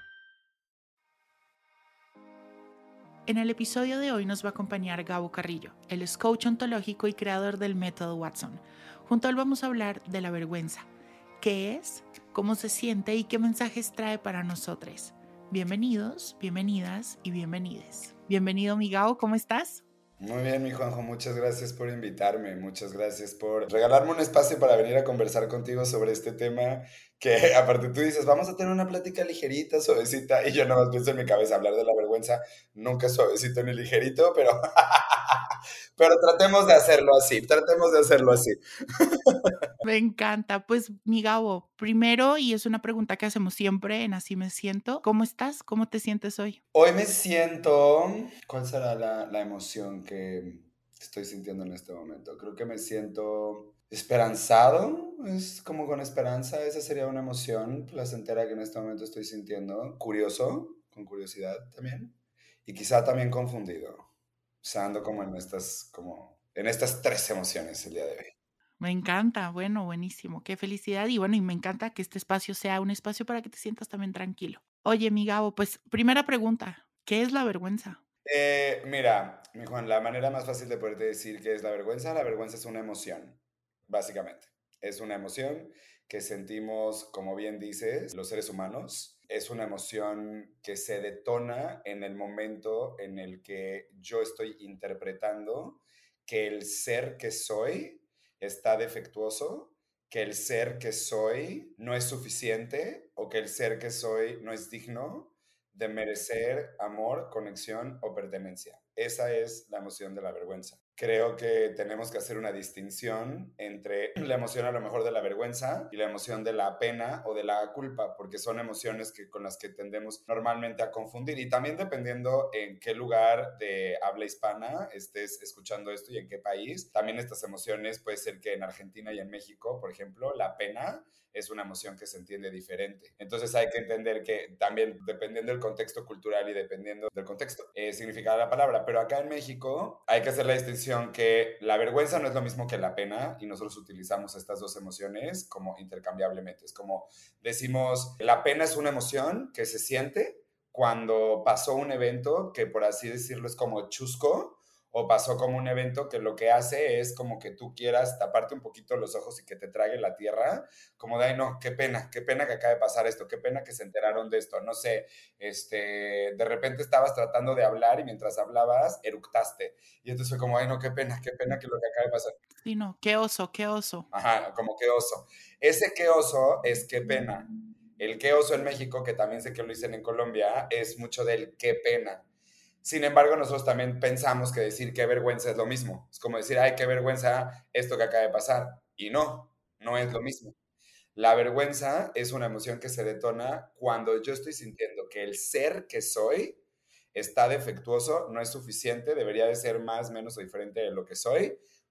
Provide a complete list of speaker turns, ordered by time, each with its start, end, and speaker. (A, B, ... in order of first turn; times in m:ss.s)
0:03.3-0:10.9 A
0:11.4-0:19.8 A
0:20.2-0:39.6 B
0:39.8-0:46.6 A
0:46.7-1:02.1 B
1:02.7-1:04.1 B
1:04.6-1:08.3 B
1:08.8-1:18.0 A
1:18.2-2:52.4 B
2:52.6-2:54.1 A
2:54.1-3:02.2 B
3:02.8-3:10.6 B
3:11.2-3:16.6 B
3:17.1-3:21.6 B